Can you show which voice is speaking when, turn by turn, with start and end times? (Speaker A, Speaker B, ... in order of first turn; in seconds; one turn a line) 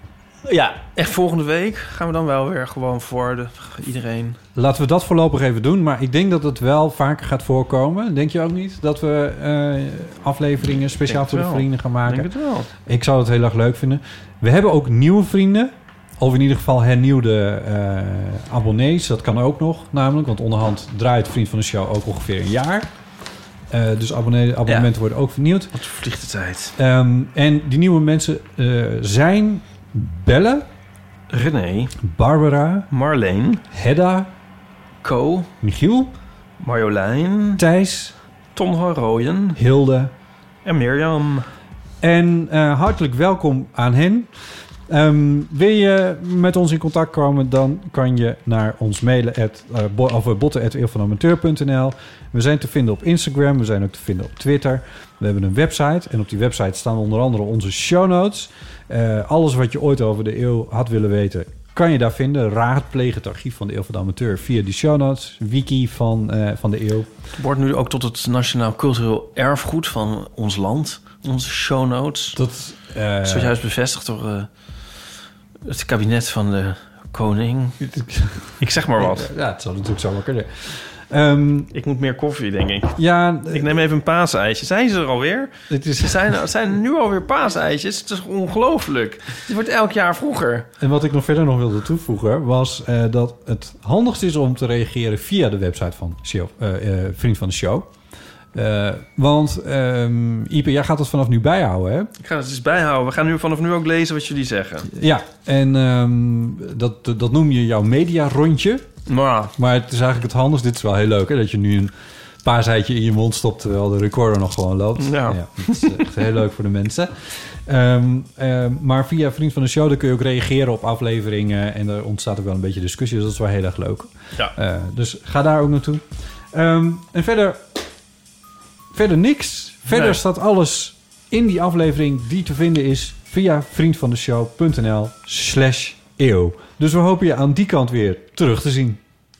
Speaker A: 0.5-4.4
Speaker B: 4.5-22.9
Speaker A: 11.1-12.7
Speaker B: 23.7-25.7
Speaker A: 25.7-26.7
Speaker B: 26.8-30.7
Speaker A: 31.3-32.0
Speaker B: 32.0-32.9
Speaker A: 32.9-33.6
Speaker B: 33.7-34.3
Speaker A: 35.0-35.5
Speaker B: 35.6-36.1
Speaker A: 36.6-37.6
Speaker B: 37.6-38.1
Speaker A: 38.5-39.6
Speaker B: 39.5-40.1
Speaker A: 40.6-41.5
Speaker B: 42.0-44.3
Speaker B: 44.9-67.1
Speaker A: 67.4-72.4
Speaker B: 72.3-73.6
Speaker A: 73.2-74.5
Speaker A: 75.7-77.8
Speaker B: 77.8-81.7
Speaker A: 78.6-79.3
Speaker A: 81.7-83.0
Speaker B: 83.0-83.8
Speaker A: 83.5-90.7
Speaker B: 85.7-86.3
Speaker B: 90.8-97.9
Speaker B: 98.5-102.1
Speaker A: 102.2-104.9
Speaker B: 104.9-108.8
Speaker A: 109.1-109.5
Speaker B: 109.5-111.9
Speaker B: 112.4-127.6
Speaker A: 115.0-116.1
Speaker B: 128.9-139.0
Speaker A: 129.9-130.2